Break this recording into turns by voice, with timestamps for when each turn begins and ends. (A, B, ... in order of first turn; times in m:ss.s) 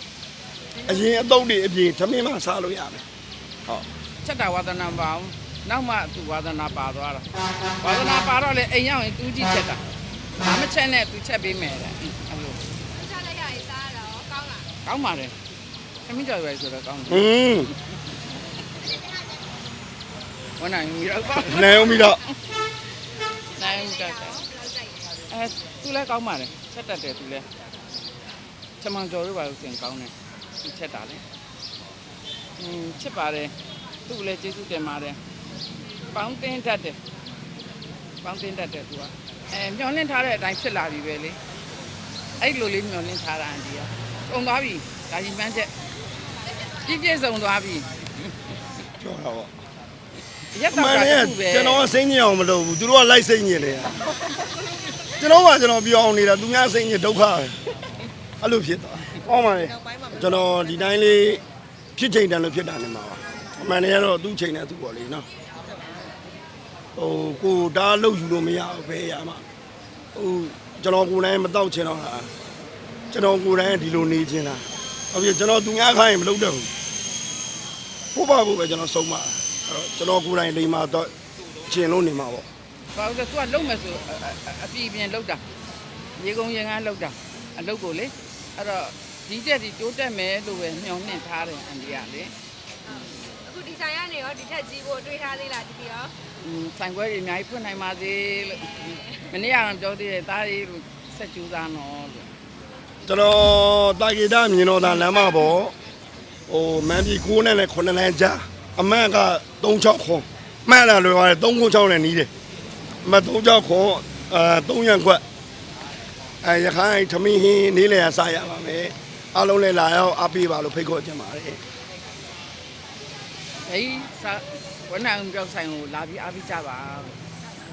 0:00.8-0:03.0 A
0:04.2-0:09.8 B
0:10.4-0:12.7 B
0:12.9-0:14.7 C
0:14.8-0:15.4 B
0:16.1-0:17.2 B
0:17.1-0:17.7 A
0:18.9-0:19.2 C
0:20.6-0:22.3 B
0:21.4-0:22.3 A
0:23.6-0:24.4 B
0:24.0-0:25.0 C
0:25.3-0:27.5 B
0:28.8-0:31.2 B
0:32.6-0:33.6 B
0:34.1-0:35.2 B
0:36.1-0:37.0 B
0:38.2-0:41.4 B
0:42.4-0:45.7 B
0:46.8-0:48.6 B
0:49.0-0:49.5 A
0:50.5-0:51.8 B
0:50.7-0:54.0 A
0:55.2-0:57.6 A
0:58.4-1:01.4 A
1:02.0-1:05.2 A
1:07.0-1:09.4 A
1:10.2-1:12.3 A
1:13.1-1:16.7 A
1:18.1-1:21.1 A
1:21.6-1:22.5 A
1:22.9-1:25.4 B
1:26.2-1:32.4 B
1:32.9-1:36.1 C
1:36.4-1:42.3 B
1:43.1-1:45.7 A
1:46.5-1:52.3 A
1:53.0-1:55.2 A
1:56.4-2:01.6 A
2:03.7-2:07.2 B